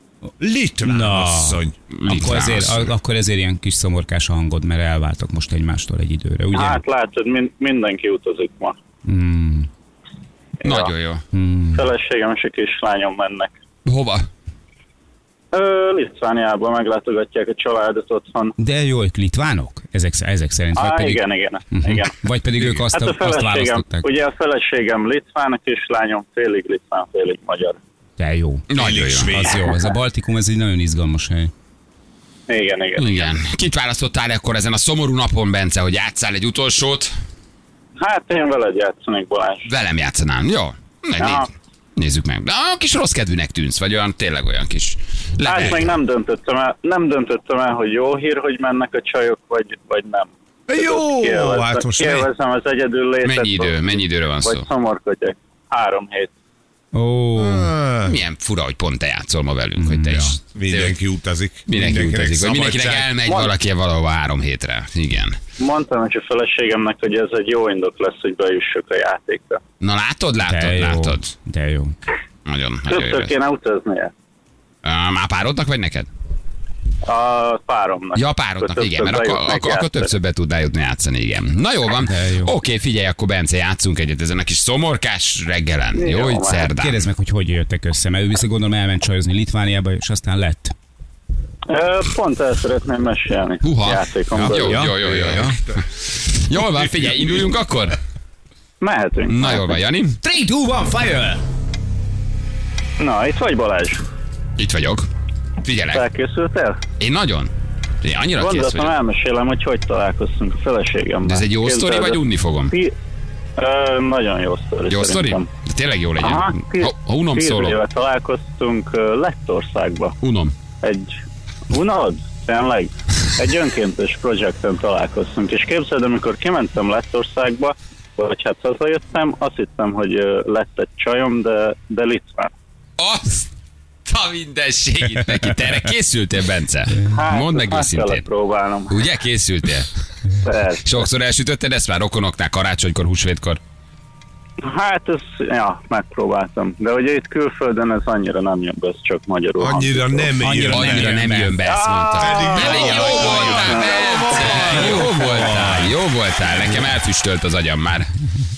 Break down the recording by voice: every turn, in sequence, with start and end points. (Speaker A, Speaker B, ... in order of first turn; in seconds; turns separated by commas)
Speaker A: 0.4-1.8, Speaker B: 0.8-6.8, Speaker C: 1.9-2.9, Speaker D: 6.5-8.8, Speaker B: 9.1-9.7, Speaker D: 10.6-10.9, Speaker C: 10.6-11.2, Speaker B: 11.3-11.8, Speaker D: 11.8-13.5, Speaker C: 13.9-14.3, Speaker D: 15.5-18.6, Speaker B: 18.6-24.1, Speaker D: 20.8-22.1, Speaker D: 22.9-27.8, Speaker B: 28.2-28.6, Speaker C: 28.7-29.4, Speaker A: 28.8-29.7, Speaker B: 29.3-31.5, Speaker D: 32.5-33.3, Speaker C: 33.0-37.1, Speaker D: 38.0-39.7, Speaker C: 39.7-46.0, Speaker D: 41.2-41.5, Speaker D: 45.4-56.3, Speaker A: 50.7-52.3, Speaker C: 53.2-54.6, Speaker B: 56.9-57.7, Speaker A: 57.4-58.2, Speaker C: 58.0-61.0, Speaker B: 59.8-60.3, Speaker A: 60.1-63.1, Speaker C: 61.7-65.4, Speaker D: 63.3-63.5, Speaker D: 65.6-69.6, Speaker C: 69.8-71.3, Speaker B: 70.4-72.0, Speaker C: 72.5-73.3, Speaker D: 72.9-74.1, Speaker C: 74.8-76.1, Speaker D: 77.0-80.1, Speaker C: 78.2-87.0, Speaker B: 82.0-82.5, Speaker D: 86.0-86.7, Speaker B: 86.7-90.7, Speaker D: 91.7-94.8, Speaker C: 93.6-98.0, Speaker B: 94.4-95.6, Speaker D: 98.8-99.8, Speaker C: 99.3-100.2, Speaker B: 100.2-101.4, Speaker D: 103.0-104.0, Speaker C: 104.6-105.1, Speaker C: 105.6-106.1, Speaker D: 105.9-106.8, Speaker C: 107.0-107.5, Speaker C: 108.0-109.0, Speaker D: 108.4-112.9, Speaker C: 111.2-112.8, Speaker D: 113.6-115.5, Speaker C: 114.9-117.8, Speaker D: 116.2-120.2, Speaker C: 120.2-120.5, Speaker D: 120.8-121.1, Speaker D: 121.7-132.5, Speaker C: 133.0-133.5, Speaker C: 134.1-138.2, Speaker D: 137.1-139.0, Speaker C: 138.9-139.9, Speaker D: 140.4-141.1, Speaker C: 140.8-143.6, Speaker D: 144.6-150.3, Speaker A: 149.6-151.3, Speaker B: 150.4-151.6, Speaker C: 150.7-158.1, Speaker D: 151.7-155.0, Speaker A: 152.2-155.1, Speaker B: 152.6-153.8, Speaker B: 154.5-155.9